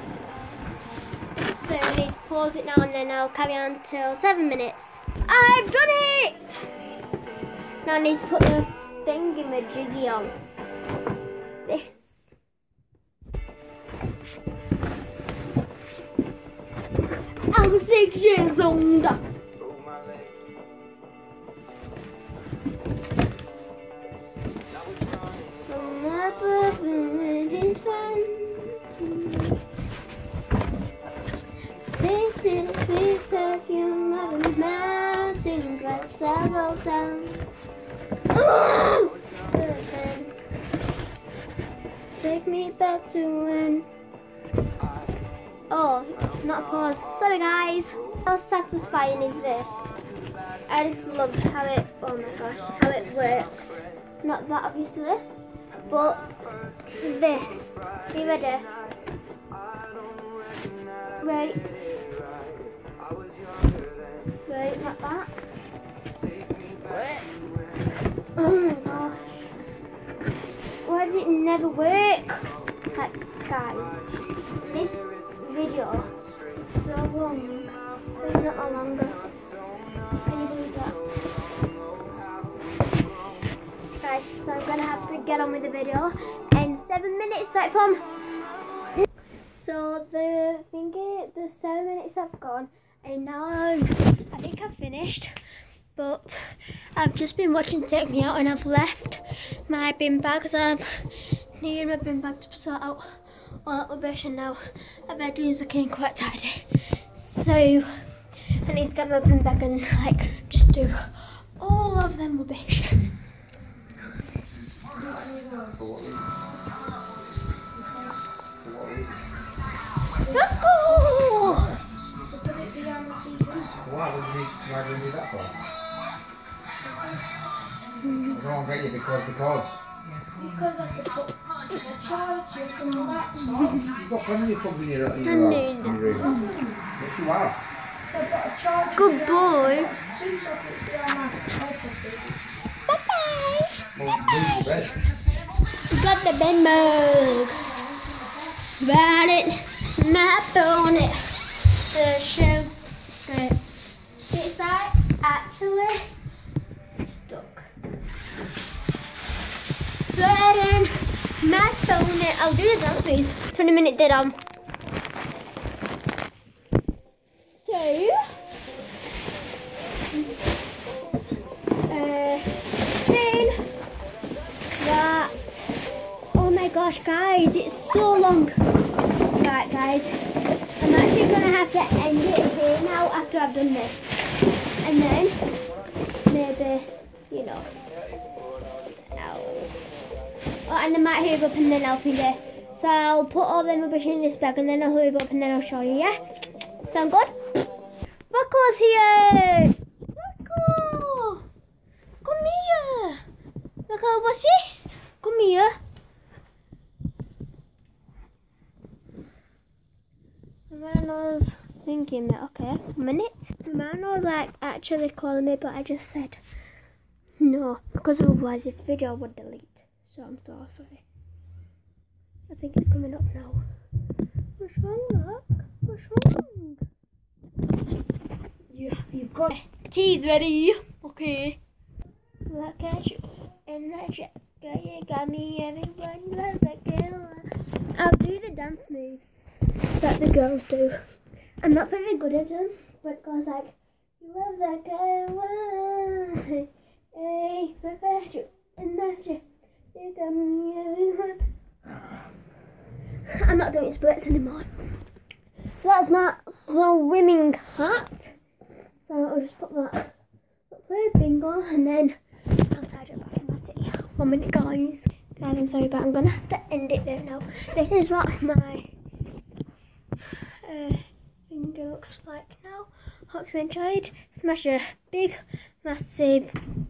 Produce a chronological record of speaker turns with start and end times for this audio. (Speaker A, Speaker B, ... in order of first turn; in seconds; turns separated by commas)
Speaker A: 1.4-6.7, Speaker A: 7.8-10.3, Speaker A: 11.6-12.3, Speaker A: 17.5-19.2, Speaker A: 25.7-29.6, Speaker A: 31.9-37.4, Speaker A: 38.3-40.3, Speaker A: 42.1-43.9, Speaker A: 45.7-49.8, Speaker A: 50.7-55.2, Speaker A: 55.8-56.5, Speaker A: 57.0-58.7, Speaker A: 61.2-61.6, Speaker A: 64.5-65.3, Speaker A: 68.4-69.3, Speaker A: 70.8-74.1, Speaker A: 74.6-79.4, Speaker A: 80.2-81.0, Speaker A: 84.0-88.0, Speaker A: 89.5-95.3, Speaker A: 96.0-101.0, Speaker A: 101.6-107.9, Speaker A: 108.5-113.1, Speaker B: 114.9-115.8, Speaker C: 115.8-116.3, Speaker B: 117.7-118.1, Speaker C: 118.6-119.3, Speaker B: 120.2-121.2, Speaker A: 120.3-121.7, Speaker C: 121.4-121.8, Speaker B: 122.2-123.8, Speaker C: 123.7-125.7, Speaker B: 126.8-127.4, Speaker A: 128.0-128.4, Speaker C: 128.3-129.8, Speaker B: 130.4-133.9, Speaker A: 133.6-133.9, Speaker C: 133.9-136.3, Speaker A: 135.2-136.5, Speaker B: 136.1-136.9, Speaker C: 137.0-137.6, Speaker B: 138.1-142.4, Speaker A: 138.9-139.9, Speaker A: 142.9-144.8, Speaker C: 143.9-144.9, Speaker A: 145.9-147.6, Speaker B: 147.4-148.6, Speaker A: 148.8-152.7, Speaker A: 153.2-153.6, Speaker A: 154.3-156.1, Speaker A: 156.9-157.7, Speaker A: 160.1-164.3, Speaker A: 167.6-168.2, Speaker A: 171.9-173.6, Speaker A: 174.8-175.6, Speaker A: 176.3-178.6, Speaker A: 179.3-180.1, Speaker A: 180.8-184.1, Speaker A: 184.8-185.4, Speaker A: 186.3-187.7, Speaker A: 189.1-189.7, Speaker A: 190.7-196.2, Speaker A: 196.9-197.4, Speaker A: 198.3-201.4, Speaker A: 202.2-203.2, Speaker A: 203.9-205.7, Speaker A: 210.7-216.4, Speaker A: 217.4-221.0, Speaker A: 222.5-223.6, Speaker A: 224.6-226.8, Speaker B: 228.7-229.5, Speaker A: 229.5-231.6, Speaker A: 232.5-239.4, Speaker A: 239.9-241.0, Speaker A: 241.6-249.4, Speaker A: 249.9-251.4, Speaker A: 253.3-254.7, Speaker A: 255.7-258.3, Speaker A: 259.0-260.1, Speaker A: 260.7-262.2, Speaker A: 262.7-268.9, Speaker A: 270.6-276.5